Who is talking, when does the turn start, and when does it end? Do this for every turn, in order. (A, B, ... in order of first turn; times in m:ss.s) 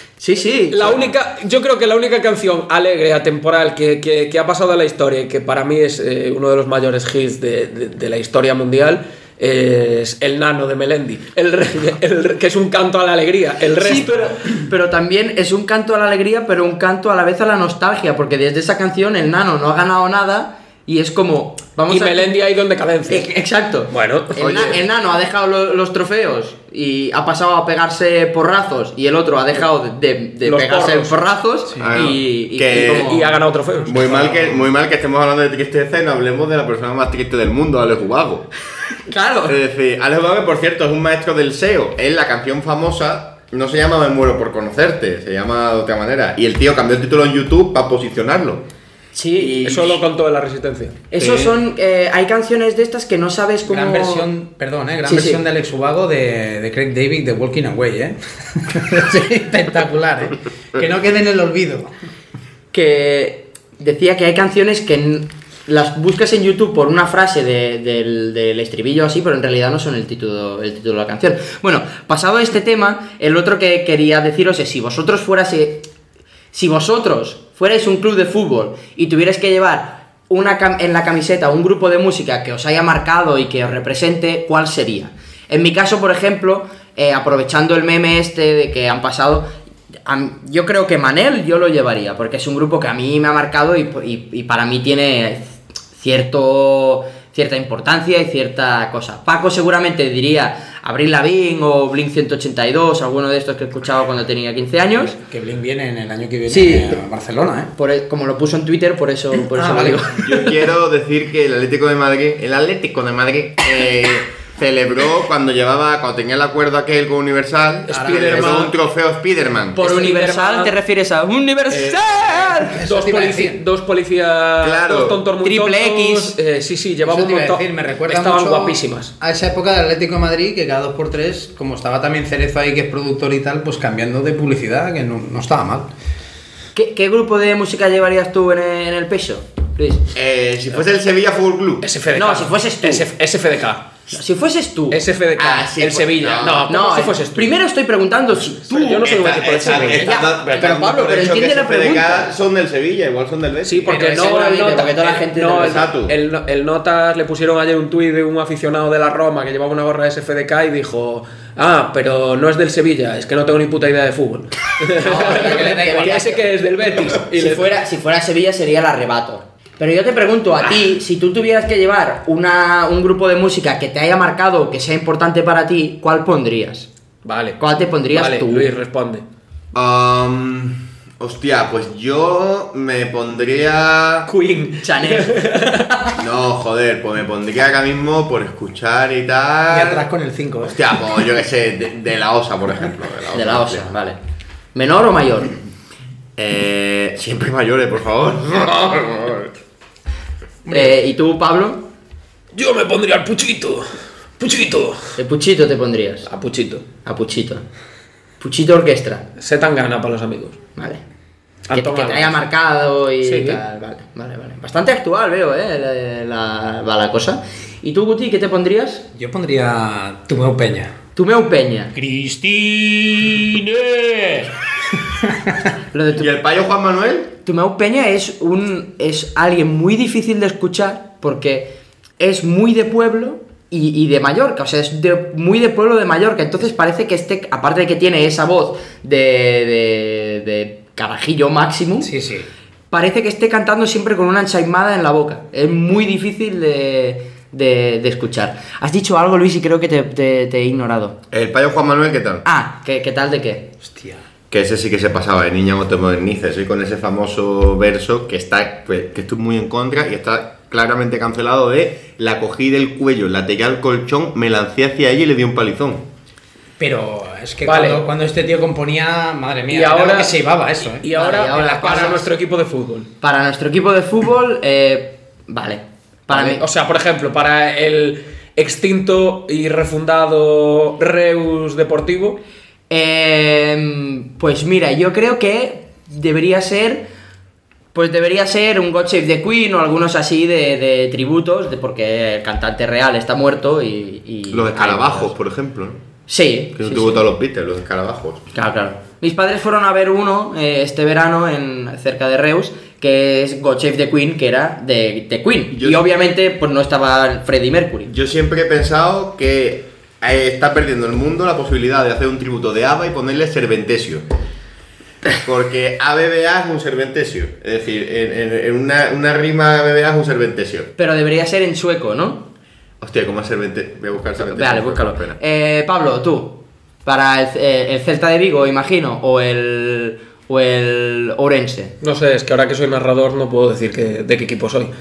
0:00.2-0:01.0 A
0:00.7-0:14.2 B
0:13.8-0:22.3 A
0:21.9-0:23.2 B
0:23.1-0:33.4 A
0:23.9-0:24.7 B
0:24.4-0:24.8 C
0:30.4-0:31.2 B
0:31.7-0:32.0 D
0:31.8-0:33.2 C
0:32.7-0:34.6 B
0:33.8-0:38.5 C
0:39.1-0:39.6 A
0:39.5-0:48.6 C
0:49.1-0:49.6 A
0:49.3-0:50.0 C
0:49.6-0:51.1 B
0:51.1-0:54.3 A
0:51.2-0:51.4 C
0:53.6-1:01.9 D
0:55.0-0:55.4 A
1:02.7-1:15.9 A
1:16.5-1:29.5 A
1:30.0-1:45.2 A
1:45.2-1:47.7 D
1:46.5-1:47.0 A
1:47.8-1:50.5 A
1:49.4-1:50.1 D
1:50.1-1:59.8 C
1:57.9-1:58.7 B
1:58.0-1:58.4 D
1:59.7-2:02.8 A
1:59.8-2:00.7 B
2:01.7-2:09.1 B
2:02.7-2:03.6 D
2:04.6-2:05.2 C
2:05.4-2:06.4 A
2:07.0-2:15.9 D
2:16.7-2:20.1 A
2:20.1-2:21.9 C
2:21.8-2:23.9 B
2:22.1-2:23.0 A
2:24.1-2:25.9 A
2:24.9-2:27.5 B
2:25.8-2:26.7 C
2:26.6-2:32.3 A
2:28.5-2:30.6 B
2:29.0-2:34.2 C
2:33.6-2:47.7 B
2:33.9-2:35.9 A
2:35.6-2:36.1 C
2:45.0-2:46.3 D
2:45.0-2:46.5 A
2:47.3-2:56.9 A
2:57.2-2:59.2 B
2:57.6-2:58.7 A
2:59.7-3:04.3 C
3:04.3-3:06.1 B
3:04.8-3:05.7 A
3:06.2-3:10.0 C
3:09.7-3:10.8 D
3:10.6-3:13.9 C
3:13.3-3:14.2 A
3:14.7-3:15.6 A
3:16.4-3:19.5 C
3:20.7-3:20.9 D
3:20.7-3:21.8 A
3:22.5-3:25.0 B
3:25.2-3:26.3 A
3:26.2-3:26.8 B
3:27.0-3:27.6 A
3:28.4-3:29.2 A
3:29.4-3:30.6 B
3:30.8-3:31.0 A
3:31.7-3:32.4 B
3:31.7-3:39.0 A
3:33.2-3:33.6 B
3:39.1-3:41.0 D
3:41.2-3:41.9 A
3:41.9-3:44.4 D
3:45.2-3:45.6 D
3:45.9-3:46.3 A
3:46.1-3:47.3 C
3:47.4-4:02.1 A
4:02.0-4:02.5 D
4:02.9-4:11.2 A
4:11.3-4:12.4 C
4:12.4-4:13.7 A
4:13.8-4:14.2 D
4:14.5-4:26.0 C
4:26.8-4:31.0 D
4:27.6-4:28.0 B
4:29.7-4:30.4 B
4:31.0-4:33.1 B
4:31.1-4:32.3 A
4:33.2-4:36.6 A
4:36.3-4:42.4 B
4:42.9-4:47.1 A
4:47.9-4:55.3 A
4:54.5-4:56.0 C
4:56.3-4:57.2 A
4:56.7-4:58.4 C
4:58.5-5:08.1 A
5:05.7-5:06.0 C
5:08.1-5:14.2 C
5:15.4-5:20.9 C
5:21.0-5:22.5 A
5:23.0-5:25.4 C
5:24.5-5:31.9 A
5:32.0-5:34.9 B